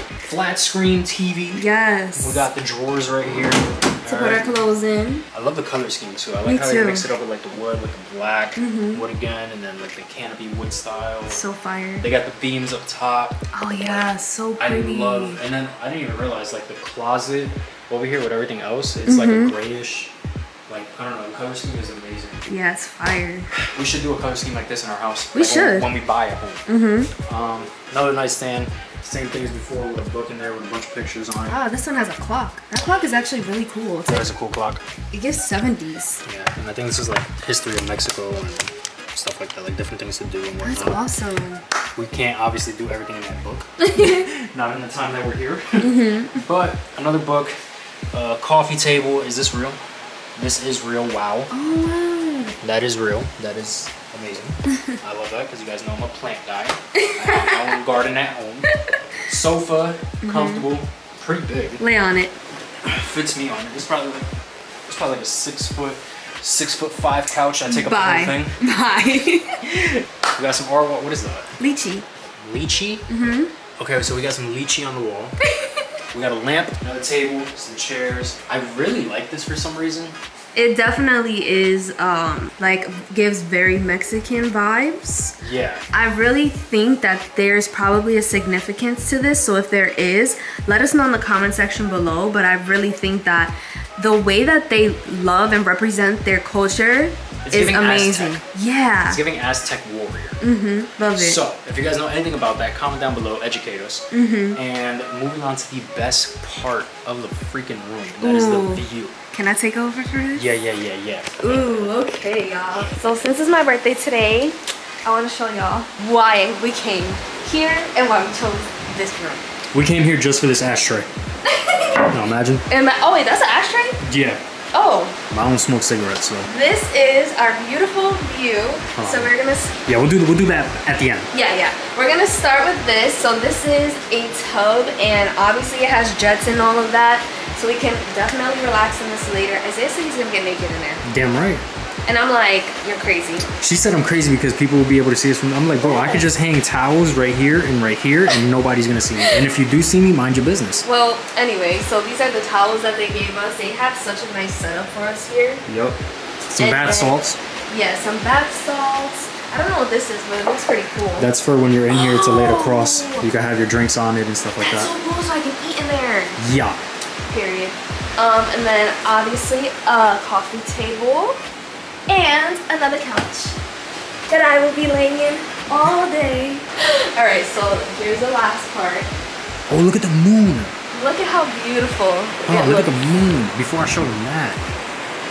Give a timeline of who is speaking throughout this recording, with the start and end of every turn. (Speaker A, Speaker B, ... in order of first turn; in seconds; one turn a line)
Speaker A: 0.2-1.7
Speaker B: 1.6-2.5
Speaker A: 2.2-4.5
Speaker B: 4.1-5.2
Speaker A: 5.3-11.4
Speaker B: 6.5-7.1
Speaker B: 8.6-9.0
Speaker B: 11.3-12.1
Speaker A: 12.0-14.0
Speaker B: 13.5-15.4
Speaker A: 14.6-20.1
Speaker B: 19.1-19.6
Speaker A: 20.7-22.4
Speaker B: 22.5-23.5
Speaker A: 23.6-26.6
Speaker B: 25.3-25.9
Speaker B: 26.7-27.1
Speaker A: 27.3-31.6
Speaker B: 31.5-34.3
Speaker A: 34.1-34.8
Speaker B: 35.1-36.2
Speaker A: 36.2-41.0
Speaker B: 40.6-41.6
Speaker A: 42.0-47.5
Speaker B: 43.8-44.3
Speaker B: 45.8-46.4
Speaker A: 48.1-49.8
Speaker A: 50.4-51.5
Speaker B: 51.5-52.6
Speaker A: 52.6-58.7
Speaker B: 54.7-55.0
Speaker B: 57.0-57.8
Speaker A: 59.3-61.8
Speaker B: 60.2-60.7
Speaker B: 61.8-62.3
Speaker A: 62.8-64.3
Speaker A: 64.9-68.6
Speaker B: 67.7-70.0
Speaker A: 70.4-71.5
Speaker B: 71.6-72.1
Speaker A: 72.4-73.1
Speaker B: 73.1-73.5
Speaker A: 73.8-75.3
Speaker B: 75.5-75.8
Speaker A: 76.1-80.2
Speaker B: 80.5-85.4
Speaker A: 85.4-85.8
Speaker B: 85.9-99.2
Speaker A: 97.4-98.4
Speaker A: 99.1-100.4
Speaker B: 100.4-101.4
Speaker A: 101.1-104.0
Speaker B: 104.1-104.6
Speaker A: 104.5-109.2
Speaker B: 108.2-110.5
Speaker A: 110.3-111.9
Speaker B: 111.4-119.5
Speaker A: 119.7-121.1
Speaker B: 121.5-122.1
Speaker A: 122.1-122.6
Speaker B: 122.7-124.0
Speaker A: 124.0-124.4
Speaker B: 124.7-125.2
Speaker A: 125.3-126.5
Speaker B: 126.5-129.8
Speaker A: 129.0-129.3
Speaker A: 129.9-131.3
Speaker B: 131.3-141.0
Speaker A: 141.0-141.7
Speaker B: 142.1-143.5
Speaker A: 143.6-150.9
Speaker B: 145.8-146.3
Speaker B: 149.2-149.5
Speaker B: 150.8-155.7
Speaker A: 155.7-157.4
Speaker B: 156.6-161.3
Speaker A: 161.2-164.9
Speaker B: 161.9-163.3
Speaker B: 164.6-166.4
Speaker A: 166.4-166.8
Speaker B: 167.3-171.4
Speaker B: 172.1-173.6
Speaker B: 174.3-179.1
Speaker A: 179.7-180.7
Speaker B: 180.9-183.1
Speaker A: 182.5-184.6